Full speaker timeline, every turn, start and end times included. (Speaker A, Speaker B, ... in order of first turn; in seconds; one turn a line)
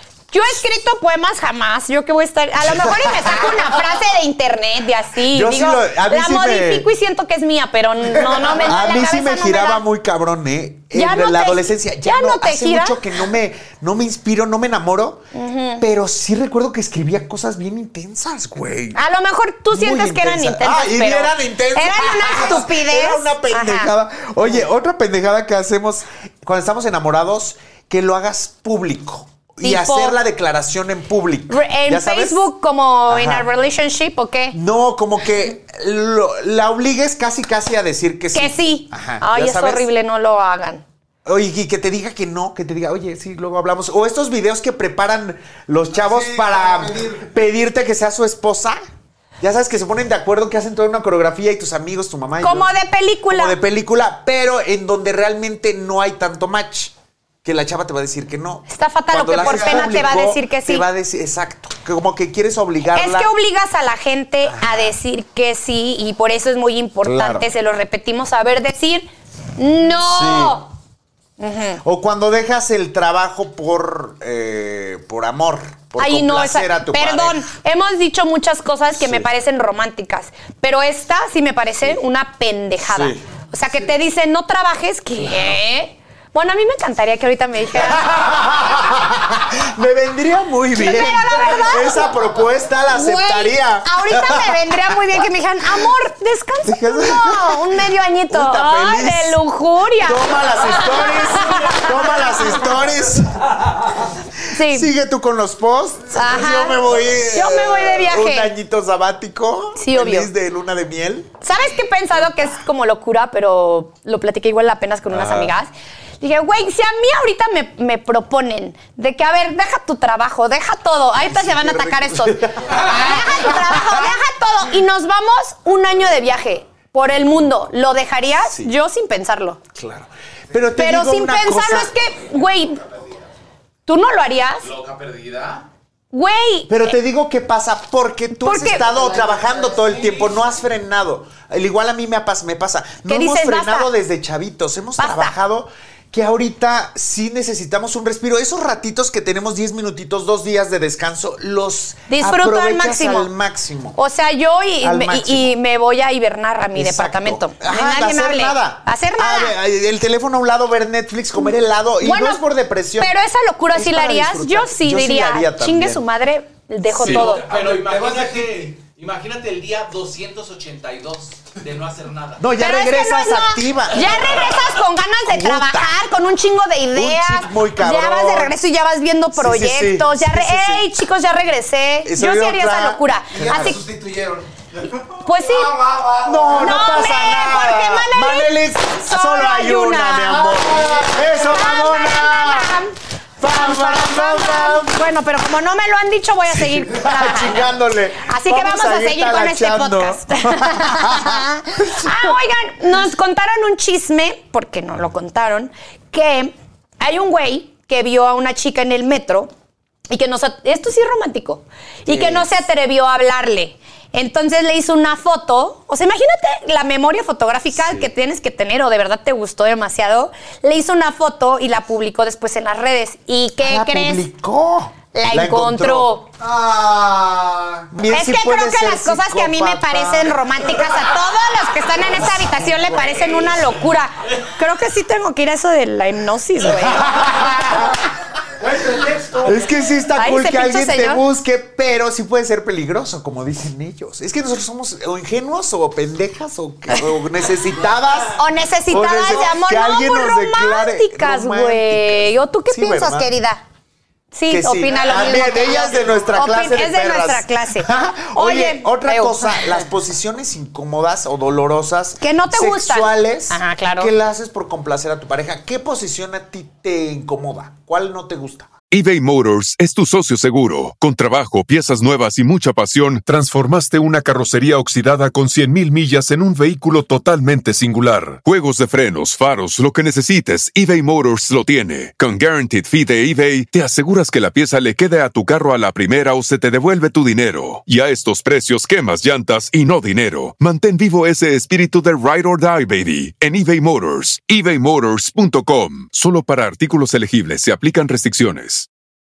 Speaker A: 0.3-9.8
Speaker B: 2.6-3.9
Speaker B: 5.2-6.9
Speaker C: 8.2-8.6
Speaker B: 8.5-15.2
Speaker A: 10.9-13.0
Speaker A: 15.3-15.8
Speaker B: 15.8-19.0
Speaker A: 18.9-23.9
Speaker B: 19.7-32.5
Speaker A: 29.6-30.2
Speaker A: 31.5-34.6
Speaker B: 33.1-33.5
Speaker B: 34.5-39.9
Speaker A: 38.3-40.8
Speaker B: 41.2-48.8
Speaker C: 45.9-47.3
Speaker B: 49.4-52.7
Speaker A: 52.4-53.6
Speaker B: 53.3-63.3
Speaker A: 58.7-60.9
Speaker C: 59.4-60.0
Speaker A: 62.9-70.7
Speaker B: 64.4-64.9
Speaker B: 67.0-67.5
Speaker B: 70.0-70.7
Speaker A: 71.4-71.8
Speaker B: 71.8-77.4
Speaker A: 76.0-88.1
Speaker B: 79.0-79.3
Speaker B: 82.9-83.2
Speaker B: 85.2-85.5
Speaker B: 87.7-94.9
Speaker A: 90.8-92.1
Speaker A: 92.9-102.7
Speaker B: 96.6-99.4
Speaker B: 100.0-111.3
Speaker A: 104.5-104.9
Speaker A: 106.1-108.5
Speaker A: 109.8-110.3
Speaker A: 111.4-115.7
Speaker B: 115.1-115.5
Speaker A: 116.2-129.6
Speaker B: 121.2-124.2
Speaker B: 128.4-128.7
Speaker B: 129.7-132.0
Speaker A: 130.8-132.8
Speaker A: 133.8-134.7
Speaker D: 134.6-135.6
Speaker A: 136.1-136.9
Speaker B: 136.7-154.0
Speaker A: 138.4-138.9
Speaker D: 138.9-140.3
Speaker A: 143.1-143.9
Speaker A: 145.0-145.3
Speaker A: 152.1-153.3
Speaker A: 153.9-159.5
Speaker B: 154.8-155.5
Speaker B: 156.7-163.2
Speaker A: 162.0-162.4
Speaker A: 163.0-167.5
Speaker B: 163.7-166.0
Speaker D: 166.9-172.5
Speaker C: 167.4-168.8
Speaker B: 172.4-174.6
Speaker A: 172.5-183.8
Speaker B: 175.2-176.0
Speaker B: 176.9-178.5
Speaker B: 179.3-180.9
Speaker B: 182.0-183.8
Speaker C: 183.3-184.5
Speaker A: 185.2-185.8
Speaker C: 185.4-186.8
Speaker B: 186.2-192.8
Speaker A: 186.5-190.6
Speaker C: 190.4-191.1
Speaker A: 191.3-197.7
Speaker B: 193.4-195.0
Speaker B: 196.5-202.3
Speaker A: 198.2-209.5
Speaker A: 210.1-224.2
Speaker B: 212.1-212.5
Speaker B: 217.7-218.1
Speaker B: 223.6-226.1
Speaker A: 225.1-226.3
Speaker C: 226.4-227.9
Speaker B: 227.9-230.8
Speaker A: 228.1-237.4
Speaker B: 232.1-233.6
Speaker B: 236.7-237.9
Speaker C: 238.6-239.7
Speaker B: 239.4-253.3
Speaker A: 240.2-241.2
Speaker A: 248.3-253.6
Speaker A: 254.3-259.6
Speaker B: 254.5-268.7
Speaker A: 262.2-264.1
Speaker E: 268.9-298.9